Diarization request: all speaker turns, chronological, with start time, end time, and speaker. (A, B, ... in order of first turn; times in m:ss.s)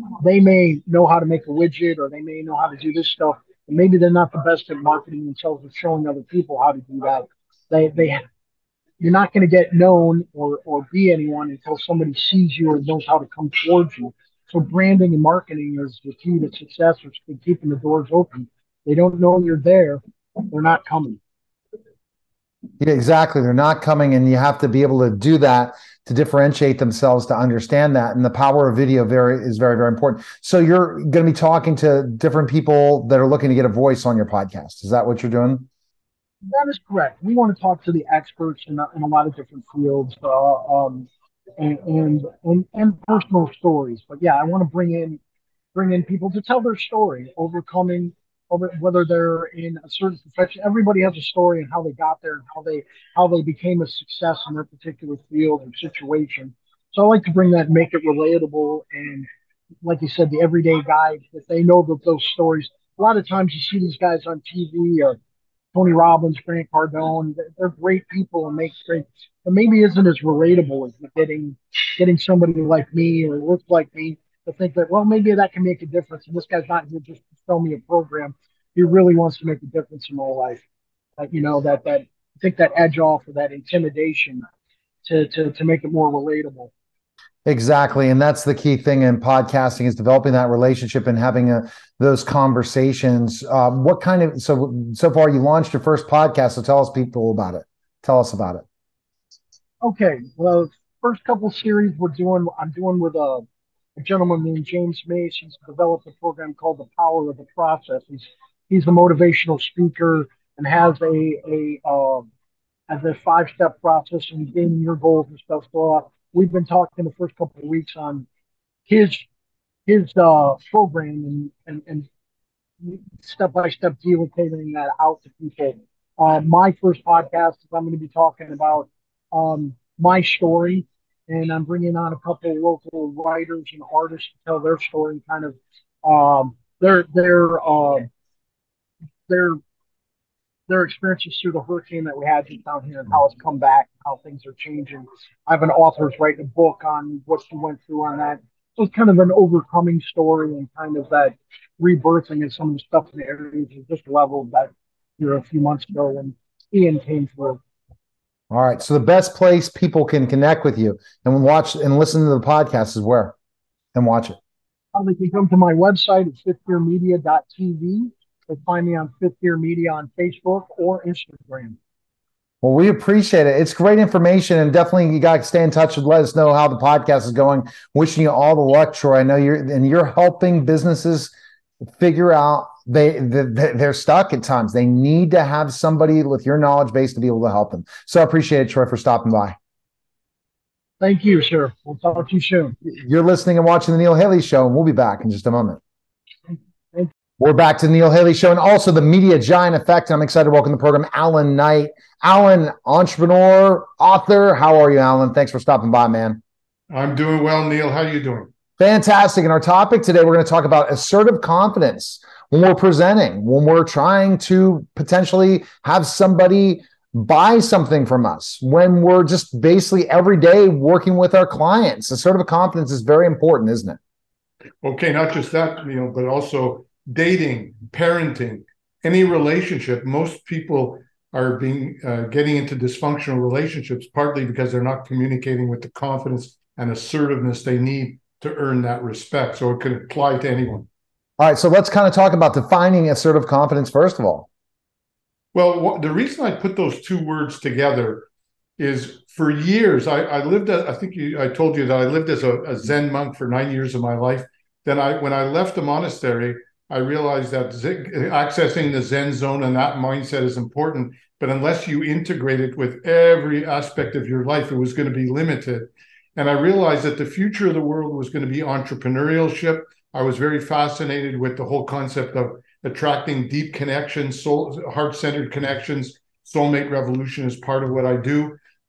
0:00.2-0:08.2 A
0:09.0-0:21.2 A
0:22.8-0:35.7 B
0:36.4-0:41.1 A
0:41.6-0:45.2 A
0:45.7-0:59.3 A
0:59.8-1:05.2 A
1:05.7-1:20.6 A
1:21.2-1:24.4 A
1:25.0-1:26.7 A
1:27.4-1:38.6 B
1:39.8-1:52.3 A
1:52.9-1:58.2 A
1:58.9-1:59.3 A
1:59.9-2:02.1 A
2:02.8-2:18.1 A
2:19.3-2:19.6 A
2:20.7-2:37.6 A
2:38.5-2:43.3 B
2:43.9-2:44.4 B
2:44.9-2:51.8 A
2:52.6-3:01.3 B
3:01.9-3:09.6 B
3:11.0-3:12.7 A
3:12.8-3:15.8 B
3:17.4-3:26.4 B
3:26.9-3:28.5 C
3:28.8-3:44.0 B
3:44.8-4:00.9 C
4:01.4-4:04.5 B
4:05.5-4:08.3 C
4:08.8-4:38.6 C